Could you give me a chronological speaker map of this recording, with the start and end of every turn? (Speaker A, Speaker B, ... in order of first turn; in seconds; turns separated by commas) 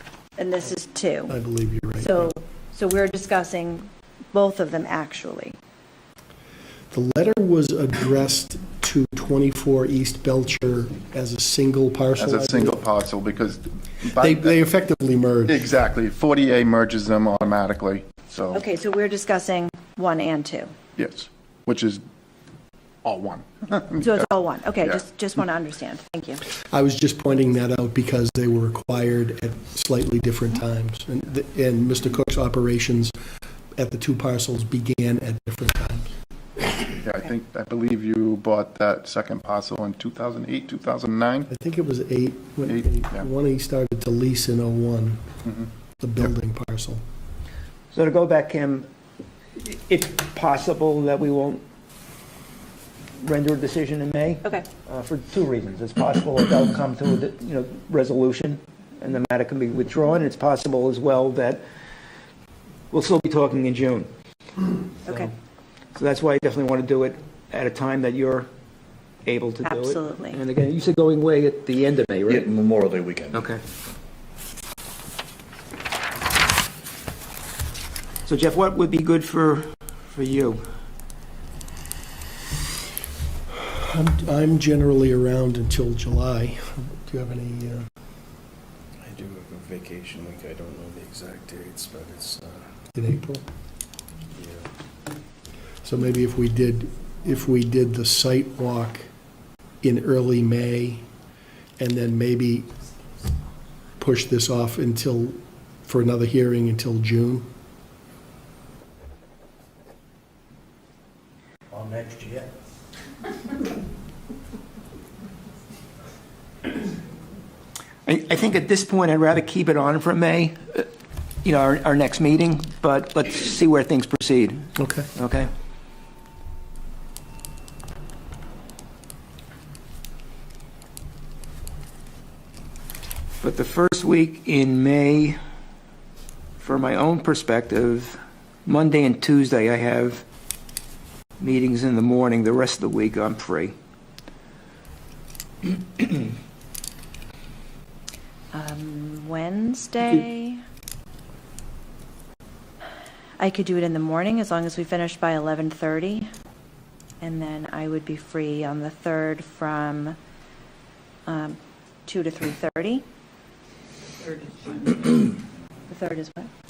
Speaker A: 0.4-1.4, Speaker B: 1.3-2.3, Speaker A: 2.0-5.6, Speaker B: 6.9-12.8, Speaker C: 12.2-14.6, Speaker B: 14.2-15.6, Speaker C: 15.5-18.6, Speaker A: 18.5-20.7, Speaker C: 21.0-22.0, Speaker C: 23.0-24.2, Speaker A: 24.0-26.4, Speaker B: 26.7-33.1, Speaker B: 33.8-36.1, Speaker C: 37.0-41.5, Speaker B: 41.5-45.2, Speaker C: 42.7-43.3, Speaker C: 45.5-45.7, Speaker B: 46.0-47.0, Speaker D: 47.9-48.9, Speaker D: 49.6-51.6, Speaker D: 53.2-61.6, Speaker D: 62.9-64.1, Speaker A: 65.1-65.3, Speaker D: 65.1-65.3, Speaker D: 66.0-68.5, Speaker D: 69.2-72.5, Speaker A: 69.7-70.4, Speaker E: 72.3-73.5, Speaker D: 73.3-73.6, Speaker D: 78.3-80.6, Speaker B: 83.6-87.9, Speaker E: 89.0-92.6, Speaker B: 93.0-93.5, Speaker E: 94.4-94.6, Speaker B: 95.8-99.1, Speaker B: 99.8-101.0, Speaker B: 101.8-102.7, Speaker B: 104.0-107.5, Speaker B: 111.7-112.5, Speaker D: 118.1-120.9, Speaker D: 121.4-125.5, Speaker B: 124.8-125.1, Speaker D: 133.4-135.4, Speaker D: 136.6-140.2, Speaker D: 141.4-143.8, Speaker A: 148.5-150.6, Speaker A: 153.4-156.3, Speaker A: 157.2-160.2, Speaker A: 161.3-163.0, Speaker A: 164.8-165.2, Speaker A: 165.9-166.5